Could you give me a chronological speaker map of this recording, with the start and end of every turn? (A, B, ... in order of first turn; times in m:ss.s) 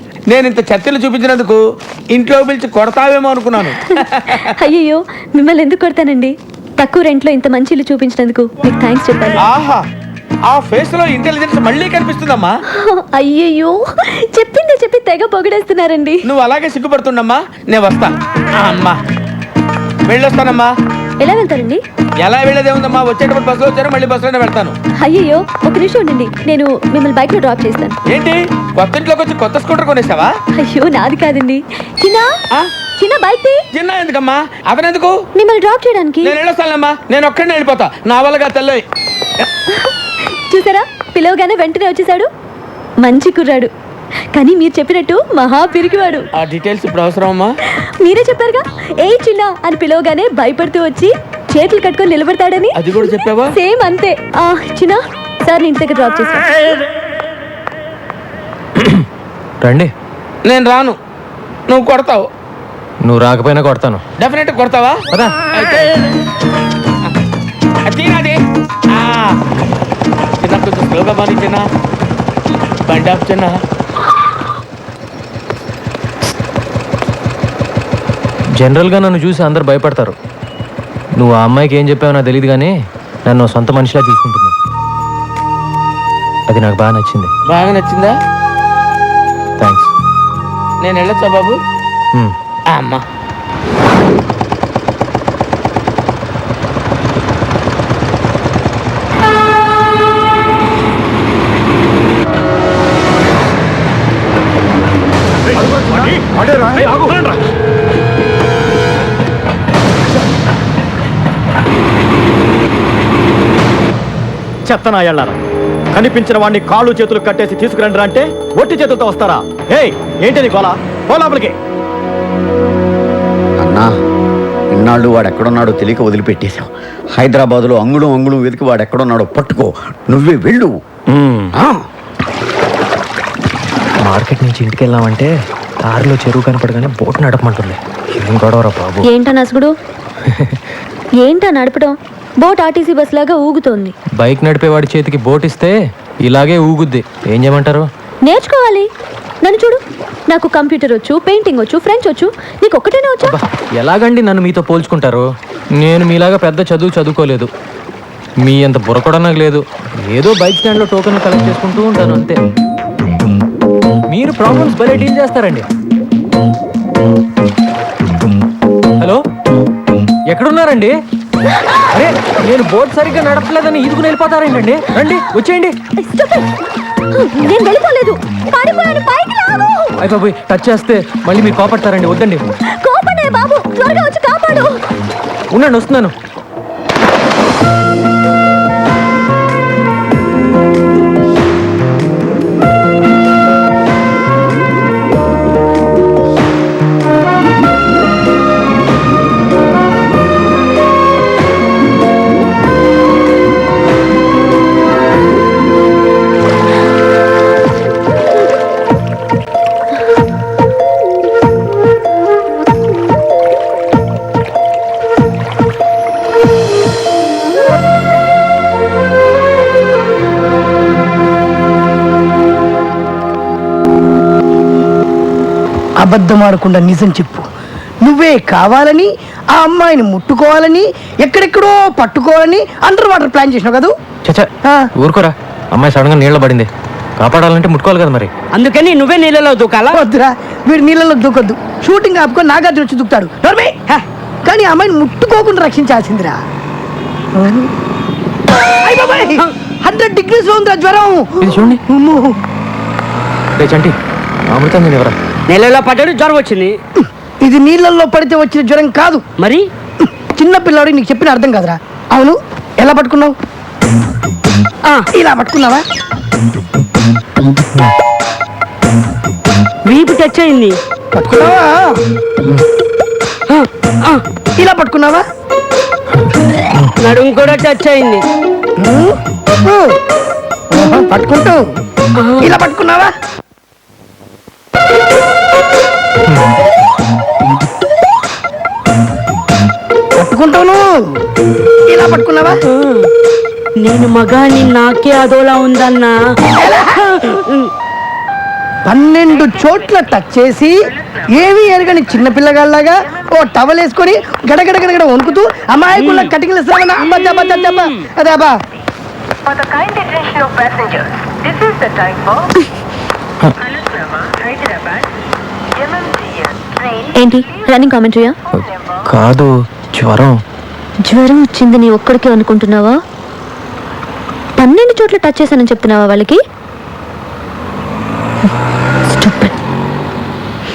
0:00.3-0:01.6 A
0:02.1-0:04.5 A
0:03.9-0:09.5 B
0:09.4-0:09.8 A
0:10.5-0:12.6 A
0:12.7-0:16.2 B
0:16.2-0:19.0 A
0:20.0-0:20.7 A
0:21.2-0:21.8 B
0:22.2-0:24.8 A
0:25.0-0:28.0 B
0:28.1-0:30.3 A
0:30.6-0:32.3 B
0:33.0-0:33.6 B
0:33.7-0:35.2 A
0:35.4-0:36.4 B
0:36.2-0:38.8 A
0:39.7-0:39.9 B
0:40.5-0:42.3 B
0:43.0-0:43.7 B
0:44.4-0:46.3 B
0:46.4-0:47.5 A
0:47.7-0:56.8 B
0:52.8-0:53.6 A
0:59.6-0:59.9 C
1:00.4-1:01.0 A
1:01.7-1:02.2 A
1:03.0-1:04.0 C
1:04.2-1:05.9 A
1:07.8-1:09.4 A
1:10.4-1:11.6 A
1:12.8-1:13.6 A
1:18.6-1:20.1 C
1:21.2-1:22.7 C
1:23.2-1:24.5 C
1:26.5-1:27.3 C
1:27.5-1:28.2 A
1:29.6-1:29.9 C
1:30.8-1:31.6 A
1:32.7-1:33.0 A
1:45.6-1:47.3 D
1:54.6-1:55.4 D
1:55.9-2:01.5 D
2:03.6-2:03.9 E
2:04.7-2:11.5 E
2:14.0-2:19.1 C
2:19.0-2:19.7 B
2:20.3-2:20.6 C
2:21.2-2:23.9 B
2:24.2-2:27.9 C
2:28.3-2:28.9 B
2:29.4-2:29.8 B
2:30.3-2:33.4 B
2:33.2-2:35.2 C
2:35.8-2:37.5 C
2:38.4-2:42.4 C
2:44.1-2:45.6 C
2:50.3-2:51.0 C
2:51.9-2:55.8 C
2:55.9-2:56.5 B
2:57.1-3:00.1 B
3:00.0-3:02.4 C
3:02.8-3:04.8 B
3:05.5-3:06.1 C
3:46.0-3:47.5 F
3:48.0-3:53.9 F
3:54.2-3:58.3 C
3:58.5-4:00.0 G
3:59.9-4:03.8 F
4:04.4-4:06.4 F
4:07.3-4:07.7 F
4:08.8-4:11.2 F
4:11.4-4:11.8 C
4:11.9-4:12.4 F
4:13.6-4:14.0 C
4:14.5-4:15.2 C
4:15.5-4:16.8 G
4:17.4-4:19.2 F
4:19.4-4:19.7 G
4:20.0-4:23.3 F
4:25.1-4:25.8 F
4:29.8-4:30.8 G
4:31.1-4:32.0 F
4:33.5-4:34.2 G
4:34.6-4:35.2 F
4:37.0-4:38.2 G
4:38.8-4:40.0 F
4:40.7-4:41.6 F
4:42.2-4:42.5 G
4:42.4-4:43.1 F
4:50.2-4:51.1 F
4:51.9-4:52.6 F
4:52.8-4:53.1 G
4:53.8-4:56.2 G
4:56.6-4:57.0 F
4:57.1-4:57.7 G
4:58.8-5:08.5 F
5:06.0-5:06.3 G
5:09.7-5:12.4 G
5:17.1-5:18.4 B
5:19.1-5:20.4 C
5:21.0-5:23.0 B
5:24.6-5:26.4 B
5:29.1-5:29.5 B